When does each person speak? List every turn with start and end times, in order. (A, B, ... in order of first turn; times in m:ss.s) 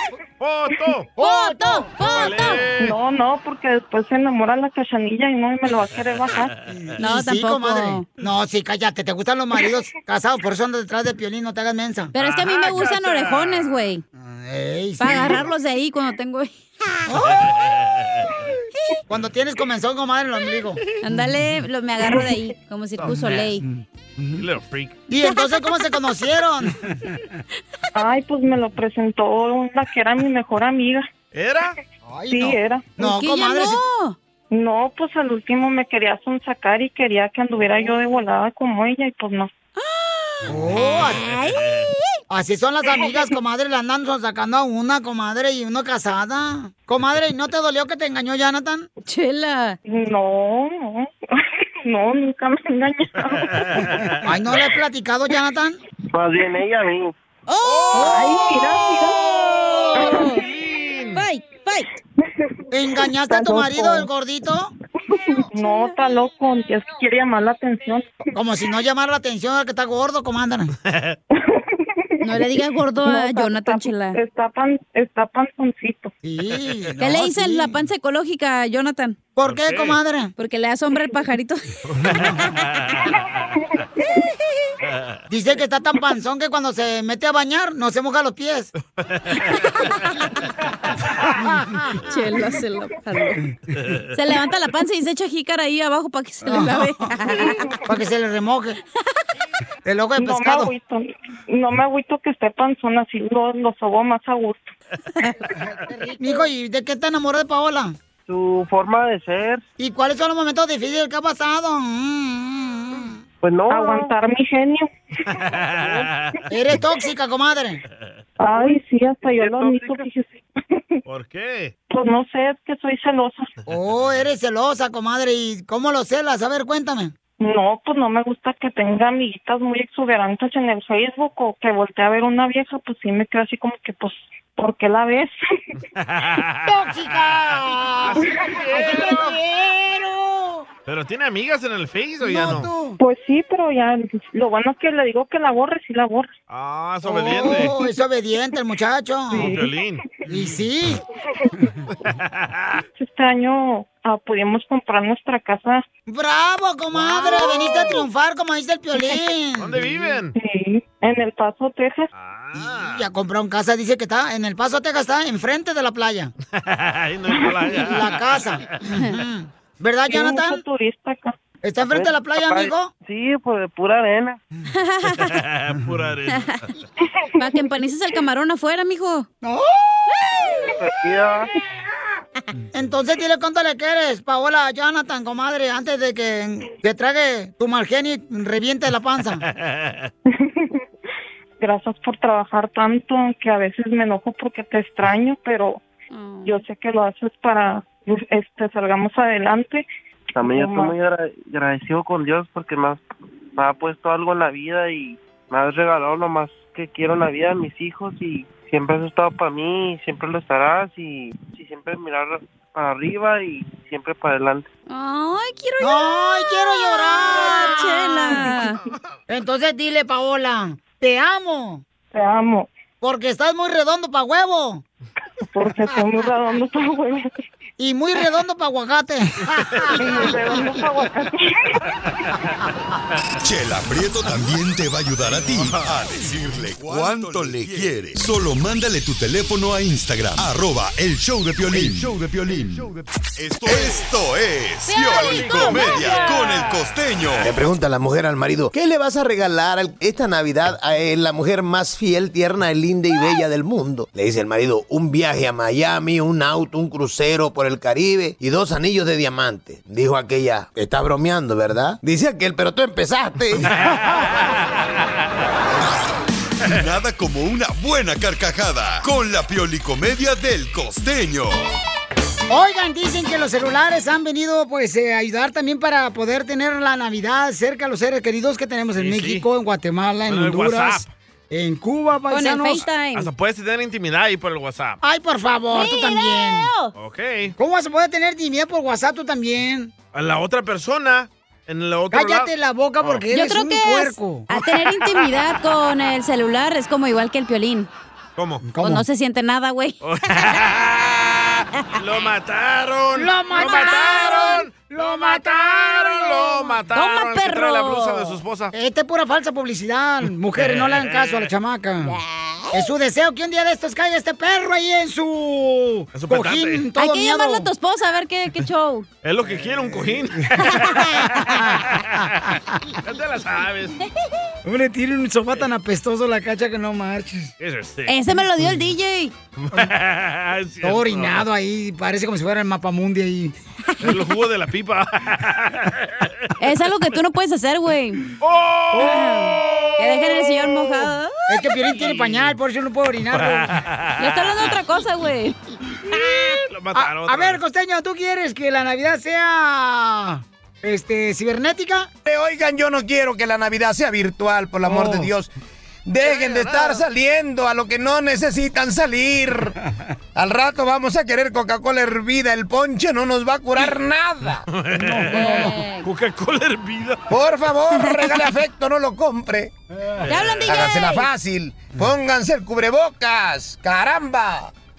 0:00.4-0:01.1 A
0:01.2-0:01.9 B
0:01.2-0:02.6 C
0:02.1-0:03.0 A
0:02.8-0:06.5 D
0:06.2-0:06.5 A
0:06.7-0:12.1 B
0:07.0-0:08.1 C
0:12.1-0:14.0 C
0:12.2-0:13.8 A
0:14.2-0:15.4 B
0:15.0-0:16.6 C
0:17.1-0:17.5 B
0:17.2-0:18.3 A
0:19.1-0:20.8 B
0:21.0-0:23.6 C
0:23.0-0:23.5 A
0:23.1-0:24.4 B
0:24.4-0:25.0 A
0:25.1-0:27.1 B
0:25.2-0:26.0 C
0:28.0-0:31.1 D
0:31.3-0:31.8 A
0:32.1-0:33.8 B
0:32.3-0:32.9 D
0:33.0-0:34.2 C
0:34.5-0:39.5 D
0:39.8-0:42.1 C
0:40.5-0:41.2 B
0:41.2-0:41.9 A
0:42.3-0:48.9 B
0:49.1-0:49.8 C
0:49.9-0:53.8 D
0:53.6-0:54.2 A
0:54.2-0:55.8 B
0:56.1-0:57.1 E
0:57.5-0:58.8 C
0:57.6-0:58.2 A
0:58.0-0:59.3 D
0:59.0-1:01.3 A
0:59.8-1:00.4 C
1:00.0-1:00.3 D
1:01.1-1:01.9 C
1:02.7-1:04.7 B
1:03.2-1:04.1 D
1:05.1-1:08.1 D
1:05.6-1:06.0 C
1:08.3-1:10.7 B
1:10.8-1:11.2 A
1:11.3-1:16.1 D
1:12.2-1:14.2 C
1:16.2-1:17.8 B
1:17.0-1:19.2 C
1:19.4-1:20.3 B
1:19.4-1:20.0 A
1:20.4-1:21.7 C
1:21.9-1:23.8 A
1:24.9-1:25.2 A
1:25.3-1:28.7 B
1:29.0-1:29.7 A
1:29.5-1:30.1 C
1:31.2-1:32.0 B
1:32.1-1:33.4 C
1:33.8-1:34.1 A
1:34.1-1:37.8 C
1:36.4-1:37.1 B
1:37.9-1:38.8 B
1:39.8-1:40.7 B
1:40.2-1:44.7 D
1:45.6-1:48.0 B
1:48.3-1:49.6 E
1:49.8-1:53.2 B
1:53.4-1:54.1 E
1:53.7-1:54.9 D
1:55.3-1:56.4 A
1:56.5-1:57.8 B
1:58.4-2:01.0 D
1:58.5-2:00.0 E
2:01.1-2:01.7 A
2:01.9-2:03.5 D
2:03.7-2:07.1 B
2:07.4-2:15.4 D
2:16.0-2:16.8 A
2:16.7-2:20.7 B
2:18.0-2:19.4 A
2:20.9-2:22.7 A
2:22.2-2:23.0 B
2:23.0-2:26.3 D
2:26.5-2:27.8 A
2:27.0-2:29.6 B
2:29.3-2:29.7 D
2:29.4-2:30.1 A
2:30.3-2:31.0 B
2:31.5-2:31.8 B
2:32.0-2:32.8 A
2:33.0-2:35.8 D
2:36.1-2:39.8 B
2:37.0-2:37.7 A
2:39.6-2:40.4 A
2:40.3-2:42.1 D
2:42.1-2:43.1 A
2:42.5-2:46.3 B
2:46.5-2:48.8 A
2:47.8-2:50.6 B
2:50.1-2:51.4 D
2:51.6-2:52.9 B
2:51.8-2:54.4 E
2:54.8-2:55.4 C
2:55.2-2:56.7 A
2:57.4-2:59.3 C
2:59.4-2:59.8 B
3:00.6-3:01.5 E
3:02.7-3:09.4 B
3:09.5-3:10.1 A
3:10.3-3:10.8 D
3:11.6-3:15.8 D
3:16.1-3:16.6 C
3:16.4-3:19.9 D
3:20.4-3:34.7 E
3:20.4-3:21.0 D
3:34.9-3:38.8 C
3:35.8-3:38.5 B
3:39.3-3:41.8 B
3:42.1-3:42.7 D
3:43.0-3:44.8 B
3:45.5-3:47.3 D
3:47.8-3:50.4 B
3:49.9-3:51.8 D
3:53.4-4:07.6 F
3:55.5-3:55.8 A
4:04.9-4:06.7 C
4:05.1-4:06.8 A
4:07.4-4:23.7 G
4:23.8-4:24.7 A
4:26.6-4:31.7 F
4:32.5-4:42.9 B
4:39.0-4:39.4 A
4:40.3-4:41.1 A
4:42.3-4:43.3 C
4:43.1-4:45.0 A
4:45.0-4:46.7 B
4:45.7-4:46.9 C
4:47.0-4:47.6 A
4:47.6-4:49.9 B
4:50.1-4:52.5 A
4:52.1-4:54.6 B
4:53.3-4:57.9 C
4:58.4-4:58.7 A
4:58.6-4:59.0 B
4:58.8-5:00.5 C
5:00.0-5:08.7 A
5:03.2-5:06.8 B
5:03.5-5:04.7 C
5:06.9-5:08.4 C
5:08.7-5:12.2 B
5:10.6-5:11.5 A
5:12.7-5:17.7 B
5:16.1-5:16.9 A
5:17.0-5:19.1 C
5:19.2-5:24.0 A
5:20.4-5:22.8 B
5:24.6-5:27.5 B
5:27.6-5:28.5 A
5:28.1-5:29.3 C
5:29.6-5:31.4 A
5:30.8-5:33.6 B
5:34.0-5:36.5 A
5:36.6-5:38.3 C
5:38.4-5:41.1 A
5:39.0-5:41.7 C
5:41.5-5:43.7 B
5:42.1-5:42.5 A
5:43.3-5:44.8 A
5:44.2-5:45.6 C
5:46.4-5:47.6 A
5:46.9-5:52.1 B
5:52.2-5:55.5 G
5:54.9-5:55.3 B
5:56.1-5:59.8 G
5:56.2-5:57.0 A
6:00.4-6:04.7 G
6:04.7-6:07.2 A
6:04.9-6:05.8 B
6:05.3-6:06.1 C
6:07.3-6:09.7 G
6:08.0-6:08.4 C
6:10.2-6:10.6 A
6:10.3-6:11.3 C
6:10.6-6:14.7 G